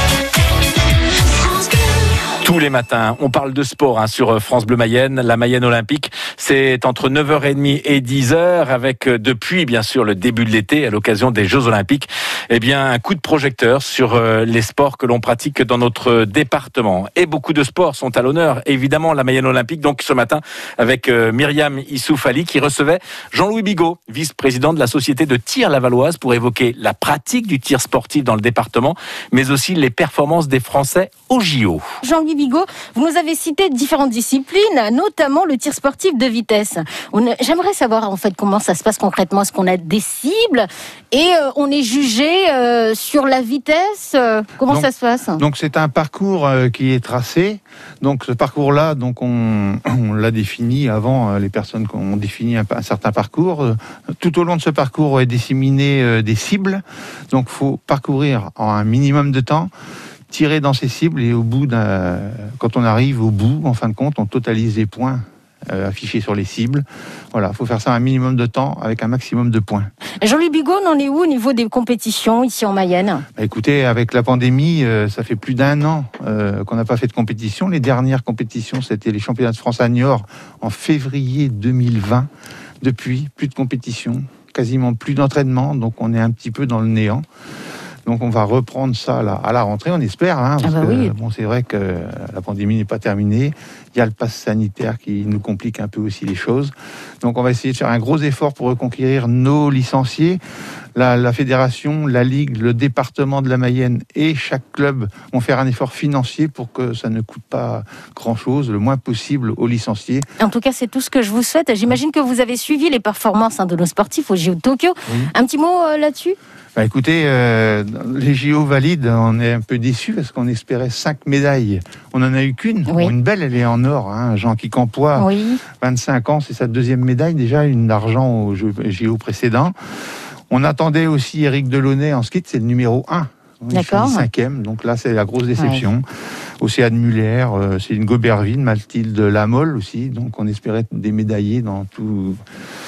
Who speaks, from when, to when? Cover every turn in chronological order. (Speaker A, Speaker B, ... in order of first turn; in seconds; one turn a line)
Speaker A: 2.4-31.8
Speaker B: 32.0-45.4
Speaker C: 44.7-59.7
Speaker C: 60.3-69.9
Speaker B: 70.2-73.2
Speaker C: 73.4-82.3
Speaker C: 82.8-87.2
Speaker C: 88.0-100.4
Speaker B: 90.6-91.1
Speaker C: 101.0-110.2
Speaker B: 110.4-116.3
Speaker C: 116.8-125.3
Speaker B: 122.9-123.1
Speaker B: 125.2-125.6
Speaker C: 125.8-129.7
Speaker C: 130.5-136.0
Speaker B: 133.7-134.2
Speaker B: 135.6-135.8
Speaker C: 136.6-142.4